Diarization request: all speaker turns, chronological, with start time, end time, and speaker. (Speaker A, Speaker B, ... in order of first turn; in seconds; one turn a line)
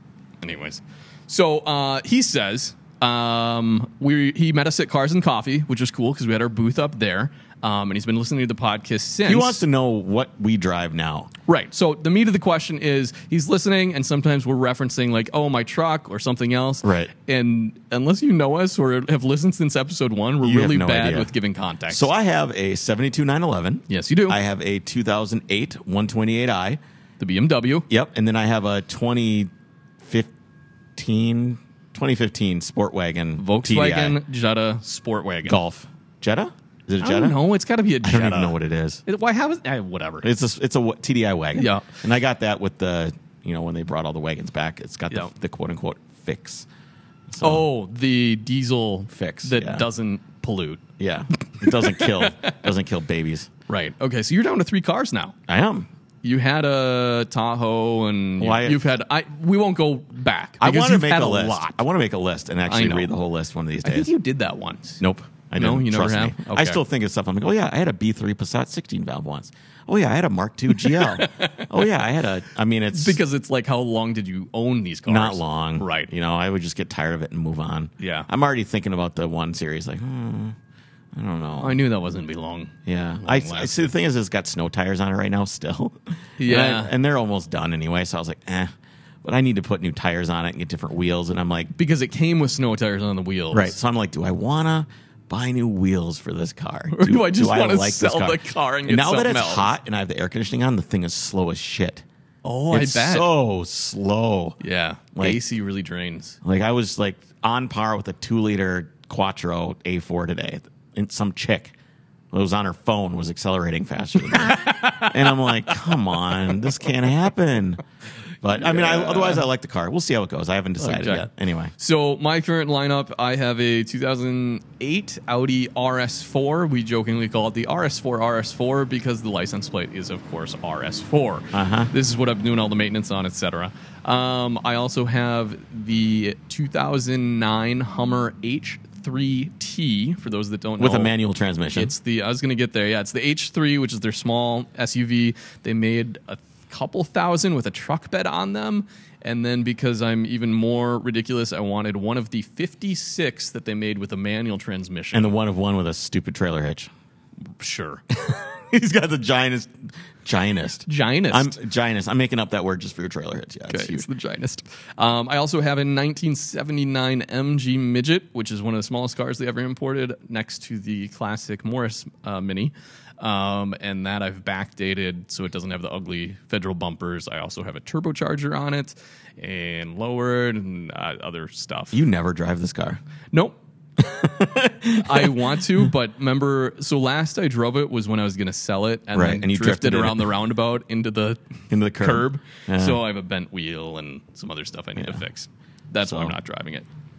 Speaker A: 0.4-9.6
Speaker B: 9.2-11.3
Speaker A: 11.5-22.1
Speaker B: 16.8-17.1
Speaker B: 20.4-21.3
Speaker B: 21.9-26.8
Speaker A: 23.9-24.4
Speaker A: 27.2-27.9
Speaker B: 27.9-30.3
Speaker B: 30.9-34.2
Speaker A: 33.4-35.6
Speaker B: 35.4-37.4
Speaker A: 37.0-40.3
Speaker B: 38.0-39.0
Speaker B: 40.2-46.7
Speaker A: 41.5-41.9
Speaker B: 47.3-47.6
Speaker A: 47.4-50.8
Speaker B: 49.1-49.8
Speaker B: 51.0-53.5
Speaker A: 51.5-52.5
Speaker A: 53.7-55.4
Speaker B: 55.5-55.9
Speaker A: 56.2-61.8
Speaker B: 58.4-58.9
Speaker B: 60.6-64.1
Speaker A: 62.7-63.1
Speaker A: 63.8-65.0
Speaker B: 65.0-73.2
Speaker A: 65.6-66.8
Speaker A: 70.8-71.7
Speaker A: 72.9-76.1
Speaker B: 75.1-80.5
Speaker A: 78.0-78.3
Speaker B: 81.1-81.8
Speaker A: 81.6-83.9
Speaker B: 82.8-88.7
Speaker A: 86.4-86.9
Speaker B: 89.2-91.7
Speaker A: 91.8-93.7
Speaker B: 93.5-102.0
Speaker A: 96.9-99.7
Speaker A: 102.4-103.3
Speaker B: 102.7-104.6
Speaker A: 104.6-106.4
Speaker B: 105.1-105.4
Speaker B: 106.4-111.7
Speaker B: 112.3-117.8
Speaker A: 114.3-115.8
Speaker B: 118.4-121.7
Speaker A: 118.6-119.4
Speaker A: 120.8-141.1
Speaker B: 131.5-131.9
Speaker B: 140.8-141.9
Speaker A: 141.7-155.3
Speaker B: 155.1-156.9
Speaker A: 157.6-158.0
Speaker B: 158.1-164.1
Speaker A: 160.8-161.6
Speaker A: 163.7-182.0
Speaker B: 181.9-183.0
Speaker B: 184.0-185.9
Speaker A: 185.0-191.4
Speaker B: 189.1-190.3
Speaker B: 191.7-193.0
Speaker A: 192.0-196.9
Speaker B: 196.0-196.3